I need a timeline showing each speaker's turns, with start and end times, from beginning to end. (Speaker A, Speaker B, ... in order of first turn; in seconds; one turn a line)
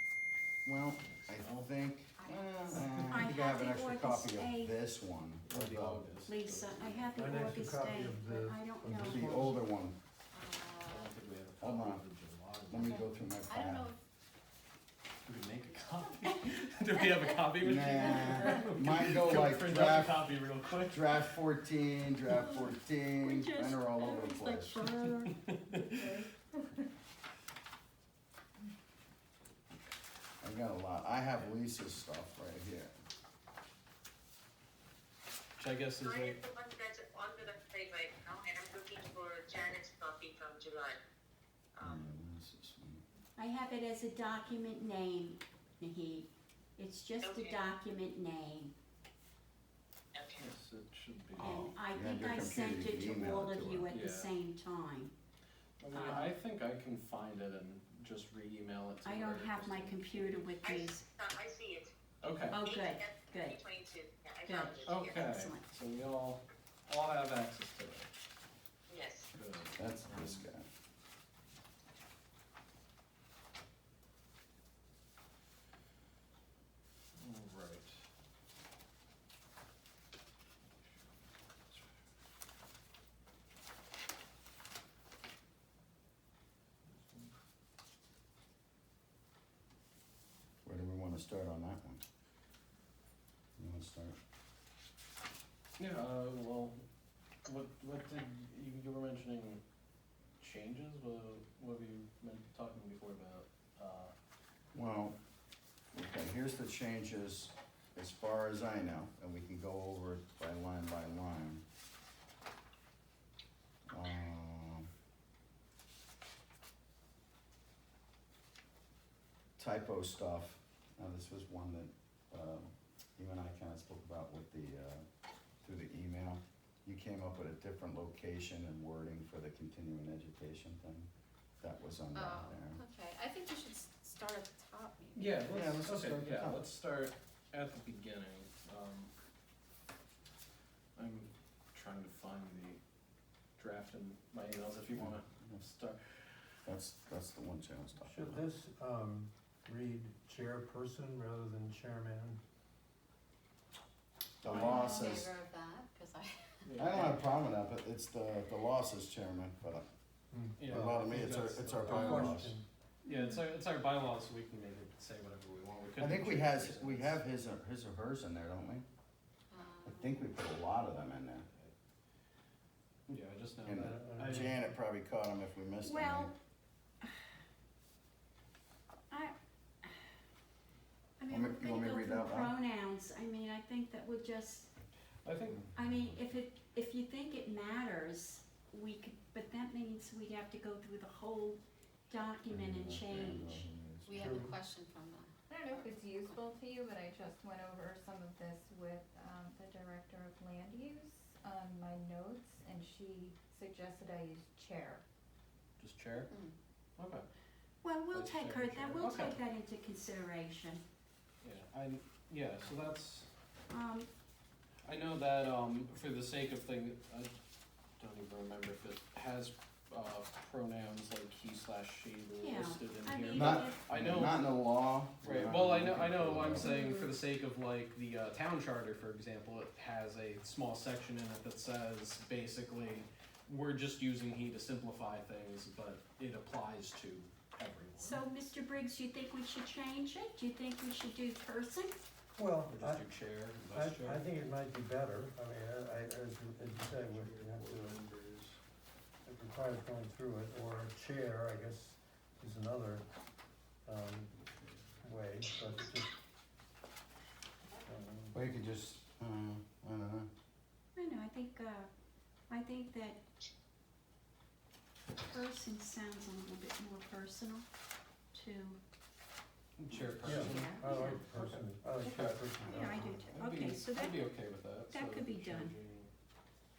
Speaker A: 0.7-6.0
Speaker B: 1.1-1.7
Speaker C: 2.2-2.9
Speaker B: 2.7-3.1
Speaker D: 3.1-4.8
Speaker B: 5.5-7.1
Speaker D: 6.2-9.2
Speaker E: 7.2-9.6
Speaker A: 8.9-10.0
Speaker C: 10.3-11.1
Speaker B: 10.9-13.4
Speaker A: 11.6-12.0
Speaker A: 12.7-13.9
Speaker C: 12.8-14.0
Speaker B: 15.2-21.2
Speaker A: 17.6-20.3
Speaker A: 20.9-24.9
Speaker D: 22.4-22.7
Speaker D: 23.2-25.3
Speaker B: 25.5-26.2
Speaker F: 25.7-26.8
Speaker A: 30.4-32.9
Speaker B: 35.6-36.4
Speaker G: 36.0-41.0
Speaker G: 41.7-42.0
Speaker A: 41.8-43.0
Speaker D: 43.4-48.7
Speaker G: 47.2-47.6
Speaker B: 50.3-51.7
Speaker A: 51.4-53.9
Speaker D: 51.4-55.1
Speaker B: 53.9-54.3
Speaker B: 55.8-60.6
Speaker D: 55.9-56.3
Speaker D: 59.0-61.0
Speaker G: 60.6-61.9
Speaker B: 62.2-62.7
Speaker D: 62.5-63.6
Speaker G: 62.6-65.3
Speaker D: 64.5-65.7
Speaker B: 64.8-68.1
Speaker G: 68.9-69.3
Speaker B: 69.3-70.5
Speaker A: 69.8-70.7
Speaker B: 77.2-78.0
Speaker B: 87.0-87.3
Speaker A: 90.6-92.0
Speaker A: 93.6-94.2
Speaker B: 95.8-96.8
Speaker B: 97.5-99.6
Speaker B: 100.4-104.1
Speaker A: 104.7-105.2
Speaker A: 105.9-111.6
Speaker A: 113.9-114.9
Speaker A: 119.6-125.0
Speaker A: 125.6-131.1
Speaker A: 131.6-132.8
Speaker C: 132.1-135.3
Speaker B: 135.2-139.1
Speaker A: 135.5-136.7
Speaker B: 140.9-142.8
Speaker B: 143.6-146.5
Speaker A: 144.9-145.6
Speaker A: 146.7-148.4
Speaker E: 148.0-152.4
Speaker A: 154.4-155.3
Speaker C: 154.4-156.3
Speaker B: 156.7-157.2
Speaker A: 156.8-159.8
Speaker E: 160.3-162.6
Speaker B: 160.6-162.4
Speaker A: 160.7-162.5
Speaker D: 163.1-163.4
Speaker B: 163.1-167.2
Speaker A: 166.0-168.8
Speaker C: 169.5-170.3
Speaker A: 169.8-171.5
Speaker A: 173.1-176.3
Speaker B: 173.1-174.5
Speaker E: 173.7-174.8
Speaker D: 175.8-176.3
Speaker D: 177.0-177.3
Speaker D: 179.1-179.9
Speaker D: 181.2-184.7
Speaker A: 181.3-182.5
Speaker B: 185.2-185.7
Speaker D: 185.8-193.7
Speaker A: 192.5-194.5
Speaker C: 194.1-196.3
Speaker E: 194.2-194.5
Speaker F: 195.5-205.0
Speaker B: 205.8-206.3
Speaker C: 206.3-206.6
Speaker B: 207.0-207.2
Speaker D: 207.8-210.8
Speaker B: 208.1-209.4
Speaker B: 211.4-213.3
Speaker D: 213.7-214.1
Speaker B: 214.8-217.3
Speaker B: 218.0-224.5
Speaker D: 222.3-223.8
Speaker A: 223.3-226.7
Speaker B: 225.2-238.2
Speaker D: 226.6-227.1
Speaker D: 238.0-241.9
Speaker E: 242.4-243.1
Speaker B: 242.7-244.2
Speaker E: 243.7-248.0
Speaker B: 246.8-248.6
Speaker E: 249.2-253.1
Speaker E: 253.8-254.3
Speaker E: 255.0-256.1
Speaker E: 257.8-258.5
Speaker A: 258.3-260.3
Speaker D: 261.0-261.9
Speaker D: 262.5-263.2
Speaker D: 265.3-267.7
Speaker D: 268.3-268.8
Speaker B: 269.8-276.1
Speaker E: 270.2-273.4
Speaker D: 270.4-271.2
Speaker D: 272.6-274.2
Speaker D: 274.9-275.8